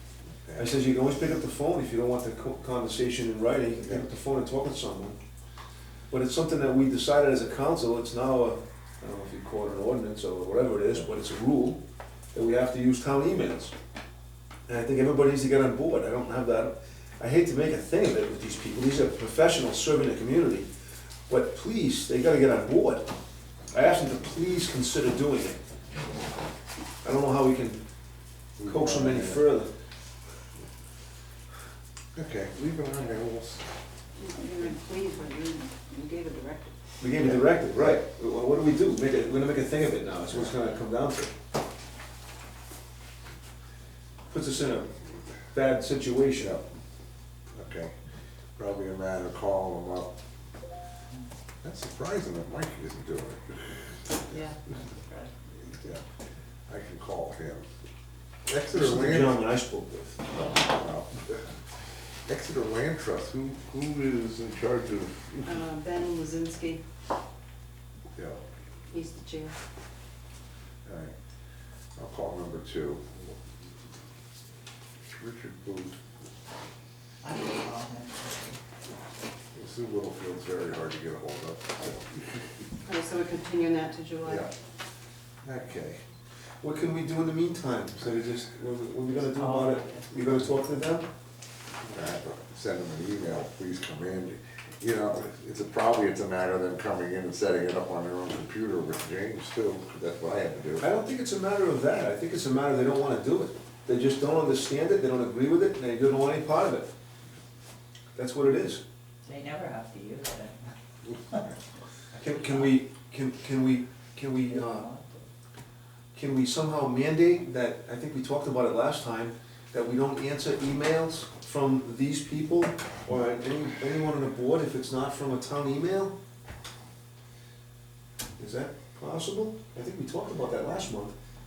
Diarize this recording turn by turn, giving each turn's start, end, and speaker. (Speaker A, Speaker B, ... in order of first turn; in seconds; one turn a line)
Speaker A: 0.3-0.7
Speaker B: 0.6-5.2
Speaker B: 6.1-11.8
Speaker B: 12.3-13.7
Speaker B: 14.7-20.7
Speaker B: 21.3-23.1
Speaker B: 23.7-25.6
Speaker B: 27.0-27.8
Speaker A: 28.6-29.4
Speaker B: 28.6-29.7
Speaker A: 32.1-33.6
Speaker C: 34.2-36.8
Speaker B: 37.0-41.3
Speaker B: 44.3-44.9
Speaker B: 45.5-46.6
Speaker A: 47.5-47.9
Speaker A: 48.6-50.1
Speaker A: 51.6-53.9
Speaker A: 55.7-56.0
Speaker A: 56.7-57.7
Speaker A: 58.5-59.4
Speaker B: 58.7-60.4
Speaker A: 60.5-61.4
Speaker A: 62.3-65.6
Speaker C: 65.5-66.8
Speaker A: 68.2-68.4
Speaker C: 68.9-69.5
Speaker A: 70.8-71.1
Speaker A: 72.0-73.3
Speaker A: 75.0-76.0
Speaker D: 77.2-78.6
Speaker A: 79.5-82.1
Speaker C: 82.8-84.5
Speaker A: 85.4-86.0
Speaker B: 86.6-91.1
Speaker D: 89.4-90.0
Speaker A: 91.8-100.9
Speaker B: 100.8-106.9
Speaker B: 108.2-108.8
Speaker D: 109.2-110.7
Speaker B: 112.2-114.9
Speaker D: 114.5-115.3
Speaker B: 116.1-126.1
Speaker B: 128.4-131.1